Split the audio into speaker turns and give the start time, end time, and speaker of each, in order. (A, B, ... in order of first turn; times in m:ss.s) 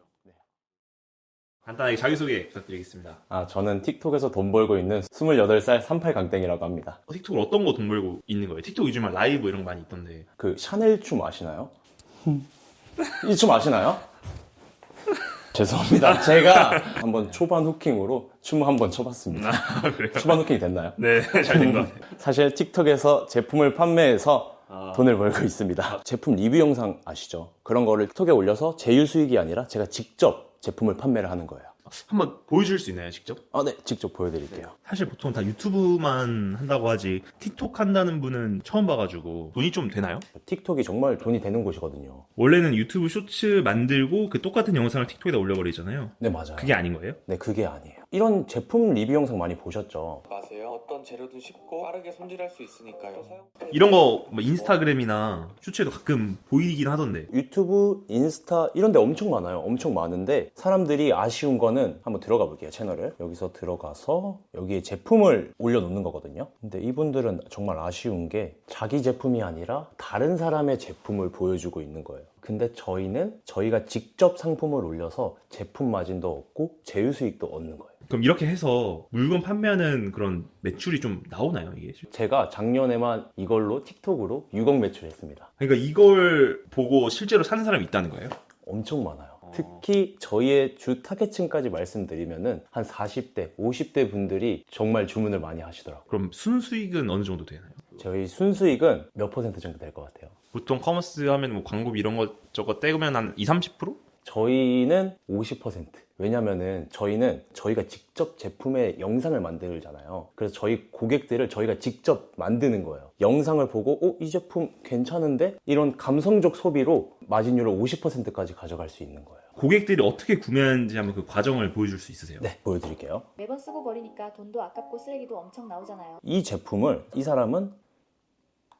0:01.6-0:03.2 A
0:03.3-0:07.0 B
0:07.1-0:10.2 A
0:10.4-0:11.7 B
0:13.1-0:14.1 B
0:15.5-0:31.7 B
0:16.0-0:17.0 A
0:19.3-0:22.0 A
0:24.7-0:25.0 A
0:31.9-0:33.4 A
0:33.5-0:34.7 B
0:34.8-0:40.2 A
0:40.3-0:42.2 B
0:42.4-0:47.2 A
0:46.2-0:46.7 B
0:47.2-0:50.2 B
0:50.3-0:53.5 C
0:53.6-0:57.3 A
0:57.3-1:17.9 B
1:18.1-1:22.0 A
1:22.1-1:25.5 B
1:25.6-1:28.4 A
1:28.6-1:36.1 B
1:29.4-1:29.8 A
1:36.1-1:38.0 A
1:38.0-1:40.3 B
1:40.5-1:44.0 A
1:44.2-1:59.4 B
1:59.6-2:02.4 A
2:02.4-2:03.3 B
2:03.4-2:06.2 D
2:06.2-2:07.8 B